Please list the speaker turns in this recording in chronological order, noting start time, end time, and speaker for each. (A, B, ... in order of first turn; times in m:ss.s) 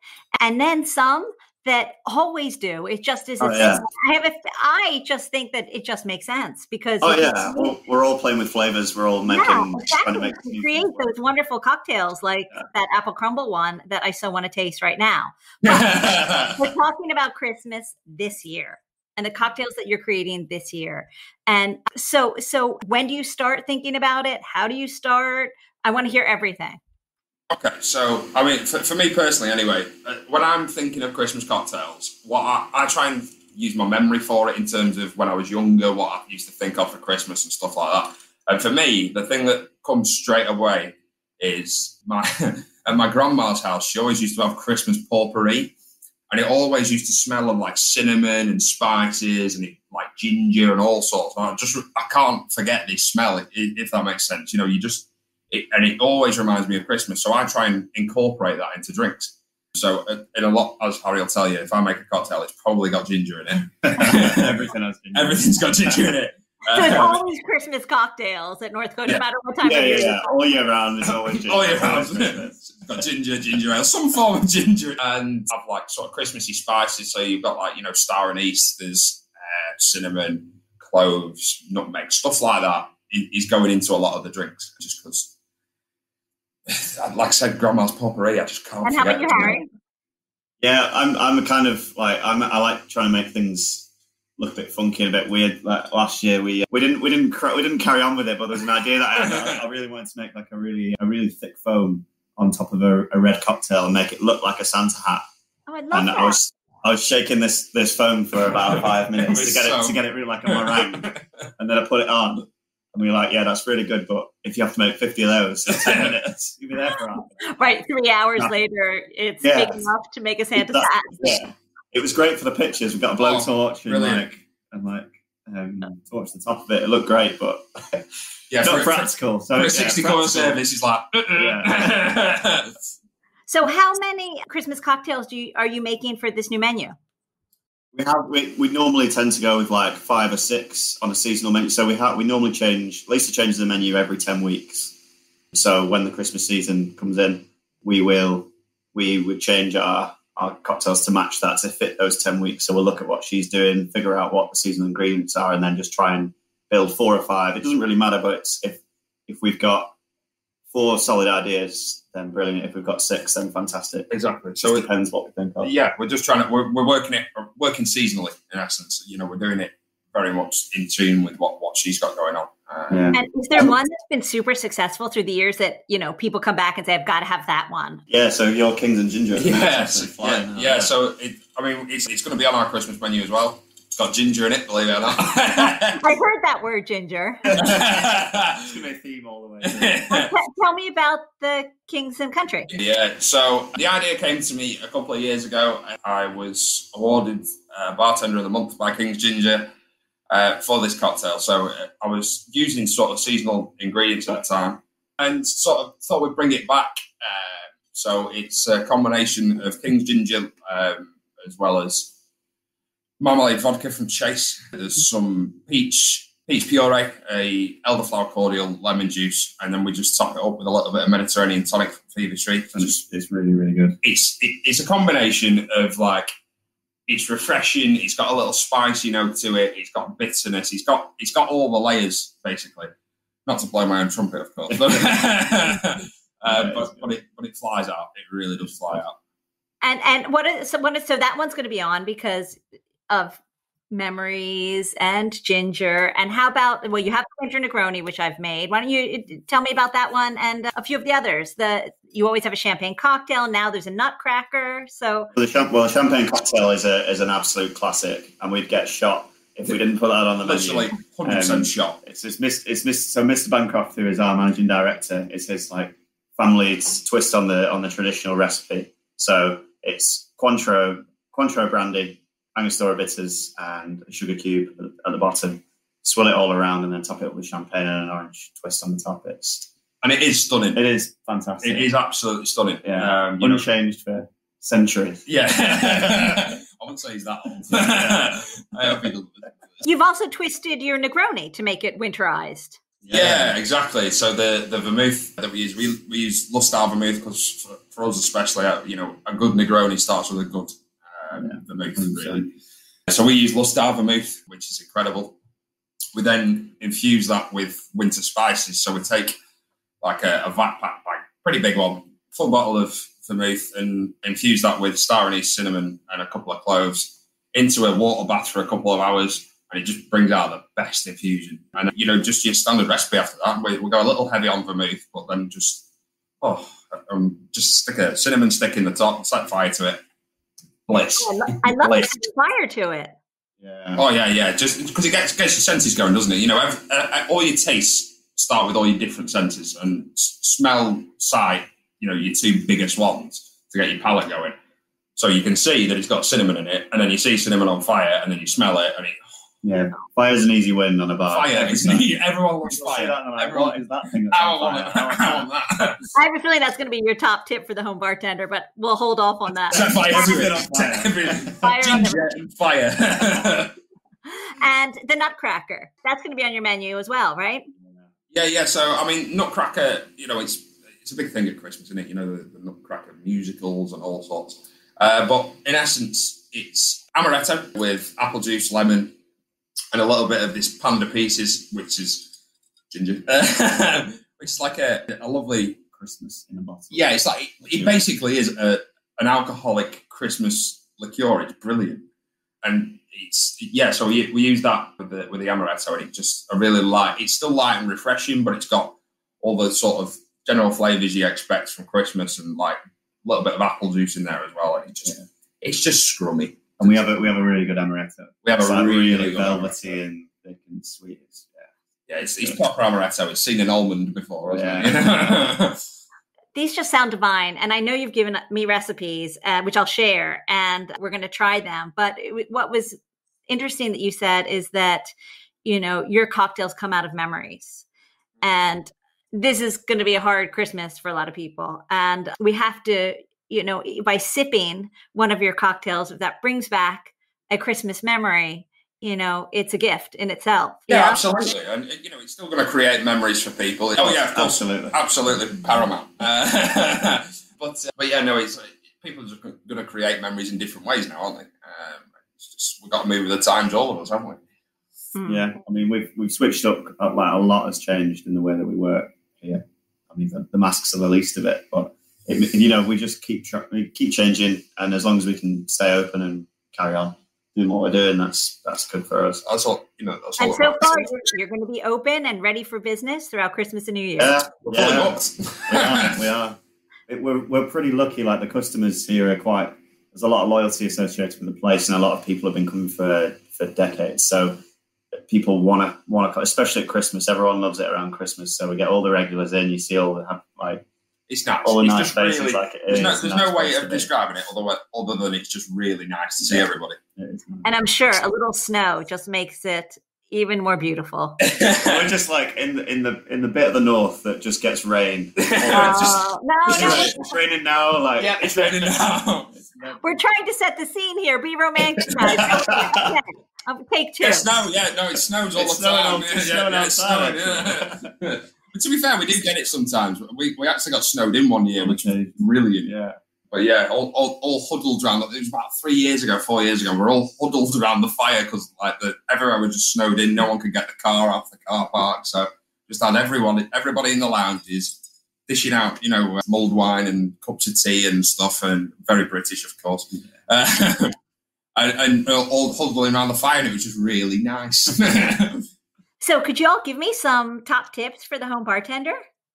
0:00.4-0:07.8 A
0:03.4-0:03.8 B
0:07.0-0:11.1 B
0:09.3-0:26.8 A
0:15.6-0:16.6 C
0:27.5-0:45.7 C
0:46.3-1:07.2 C
1:03.8-1:06.0 B
1:06.7-1:10.3 A
1:09.6-1:13.0 B
1:11.0-1:25.3 C
1:26.7-1:29.6 C
1:28.8-1:29.7 A
1:30.6-1:45.2 B
1:39.2-1:39.6 C
1:45.7-1:46.4 A
1:45.9-1:57.4 B
1:48.5-1:51.2 C
1:55.7-1:56.1 C
1:56.9-2:01.4 A
1:59.4-1:59.9 B
2:00.6-2:08.0 B
2:03.2-2:04.3 C
2:08.5-2:12.8 C
2:08.6-2:10.6 B
2:11.4-2:12.0 B
2:13.5-2:17.0 A
2:17.9-2:25.0 B
2:25.5-2:39.9 B
2:40.7-2:44.1 B
2:44.1-2:44.9 C
2:44.6-2:45.7 B
2:45.6-2:53.1 C
2:52.9-2:53.7 B
2:53.1-2:58.0 A
2:58.1-3:00.9 B
2:59.4-3:06.0 C
3:05.6-3:07.6 A
3:07.5-3:08.7 C
3:07.5-3:10.0 B
3:09.7-3:10.3 C
3:10.1-3:12.8 A
3:12.7-3:19.7 C
3:20.3-3:32.1 C
3:33.2-3:43.0 C
3:42.8-3:44.0 B
3:44.0-3:46.3 C
3:47.1-3:52.9 C
3:53.5-3:59.2 C
3:54.7-3:55.0 B
3:56.5-3:57.0 B
3:59.8-4:03.4 A
4:03.9-4:15.3 A
4:15.4-4:39.7 B
4:20.4-4:22.0 C
4:40.0-4:40.8 C
4:40.8-4:41.9 B
4:41.6-4:43.6 C
4:42.8-4:45.2 B
4:45.3-4:49.8 C
4:47.6-4:48.3 B
4:49.8-4:52.8 A
4:53.0-4:53.6 B
4:53.1-5:02.5 C
5:01.3-5:02.4 B
5:03.1-5:05.4 C
5:06.2-5:09.4 C
5:10.0-5:25.8 C
5:26.4-5:30.0 C
5:30.9-5:32.2 C
5:31.2-5:33.2 A
5:33.6-5:34.0 B
5:34.0-5:44.6 C
5:45.2-5:49.2 C
5:49.6-5:52.1 B
5:51.3-5:56.1 C
5:52.7-5:55.5 B
5:56.2-6:00.4 A
5:59.7-6:03.7 C
5:59.7-6:01.7 B
6:01.6-6:02.3 A
6:04.3-6:07.7 A
6:08.3-6:19.2 C
6:19.9-6:22.3 C
6:22.9-6:25.8 C
6:25.9-6:27.1 B
6:26.9-6:32.1 C
6:32.6-6:47.2 C
6:46.8-6:51.7 B
6:48.4-6:50.0 C
6:52.1-6:55.8 C
6:54.5-6:55.1 B
6:56.5-7:05.1 A
7:05.6-7:07.8 A
7:08.4-7:21.2 A
7:20.9-7:34.4 C
7:24.0-7:25.0 B
7:35.2-7:35.4 A
7:35.3-7:49.4 B
7:49.4-7:51.2 C
7:50.4-7:54.4 A
7:54.2-7:56.6 B
7:54.7-7:56.2 C
7:57.1-8:04.6 B
8:05.1-8:10.8 B
8:11.3-8:17.0 C
8:11.6-8:14.1 B
8:16.4-8:17.7 B
8:17.6-8:21.4 A
8:21.4-8:22.2 C
8:21.8-8:29.0 B
8:25.4-8:27.2 C
8:25.7-8:27.3 A
8:28.2-8:29.5 C
8:29.5-8:30.2 B
8:30.0-8:34.5 A
8:32.2-8:33.1 B
8:32.3-8:32.7 C
8:34.2-8:42.9 C
8:35.6-8:38.1 B
8:41.8-8:43.2 B
8:43.5-9:01.1 C
9:01.8-9:05.6 C
9:06.2-9:09.2 A